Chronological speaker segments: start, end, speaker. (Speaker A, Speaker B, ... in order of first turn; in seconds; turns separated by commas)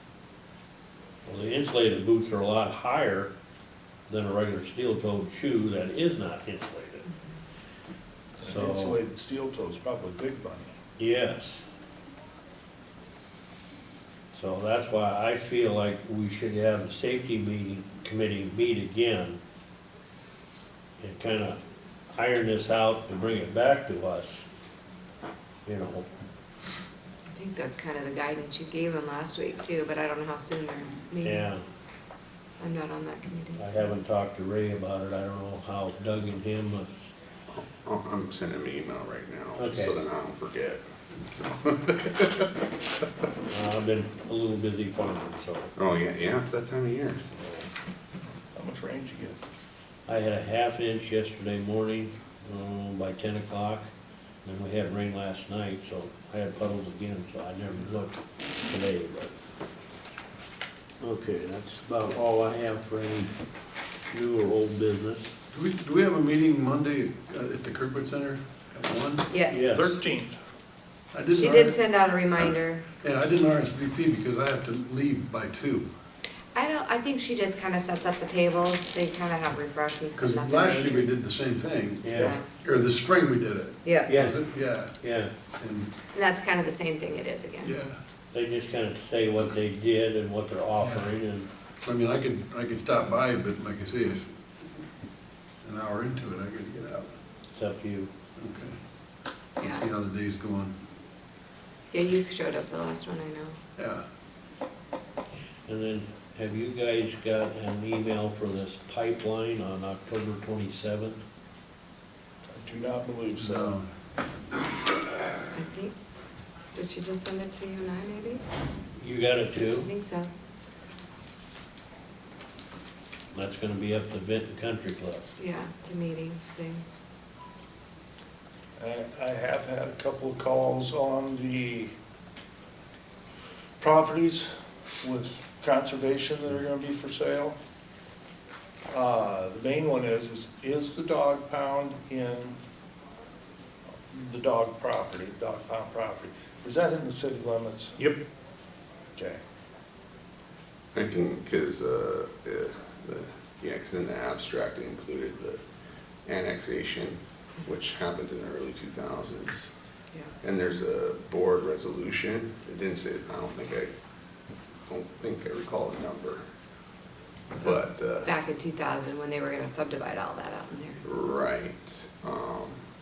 Speaker A: 1.2-3.3, Speaker A: 4.1-7.1, Speaker A: 8.4-9.0, Speaker B: 8.4-10.7, Speaker A: 11.0-11.6, Speaker A: 14.3-19.4, Speaker A: 21.0-21.6, Speaker A: 22.1-24.4, Speaker A: 25.6-26.1, Speaker C: 27.3-31.4, Speaker A: 31.2-31.6, Speaker C: 32.6-33.9, Speaker A: 33.6-37.1, Speaker D: 37.5-42.5, Speaker A: 39.6-40.0, Speaker A: 43.5-45.7, Speaker D: 45.8-47.3, Speaker A: 47.3-47.6, Speaker B: 48.5-49.4, Speaker A: 50.1-53.9, Speaker A: 54.4-59.3, Speaker A: 61.0-63.3, Speaker A: 64.1-65.3, Speaker E: 65.5-69.3, Speaker C: 69.3-69.6, Speaker A: 69.5-69.9, Speaker B: 69.7-70.4, Speaker E: 71.1-71.8, Speaker C: 71.3-72.8, Speaker E: 73.0-75.9, Speaker C: 76.5-81.1, Speaker E: 80.2-85.0, Speaker A: 82.0-82.3, Speaker C: 82.1-82.5, Speaker C: 83.8-84.1, Speaker A: 84.1-84.4, Speaker A: 85.0-85.3, Speaker E: 85.6-85.9, Speaker C: 86.1-87.7, Speaker E: 87.6-88.0, Speaker A: 88.3-91.5, Speaker E: 90.8-91.1, Speaker E: 91.8-94.3, Speaker E: 95.6-97.1, Speaker A: 97.5-98.1, Speaker E: 98.3-98.8, Speaker C: 99.6-99.9, Speaker E: 99.6-100.7, Speaker C: 101.9-103.6, Speaker E: 103.8-104.0, Speaker A: 105.7-111.2, Speaker B: 112.5-113.8, Speaker E: 113.3-113.9, Speaker C: 115.5-115.9, Speaker C: 116.7-118.4, Speaker A: 119.0-119.9, Speaker C: 119.8-120.3, Speaker A: 123.3-125.2, Speaker C: 125.4-126.8, Speaker B: 128.8-131.9, Speaker B: 133.8-137.6, Speaker B: 138.9-142.6, Speaker B: 144.1-148.2, Speaker B: 149.2-149.4, Speaker D: 150.9-155.6, Speaker D: 156.2-159.7, Speaker D: 160.4-163.9, Speaker D: 164.9-166.4, Speaker D: 167.6-168.3, Speaker C: 167.6-171.0, Speaker D: 171.0-172.8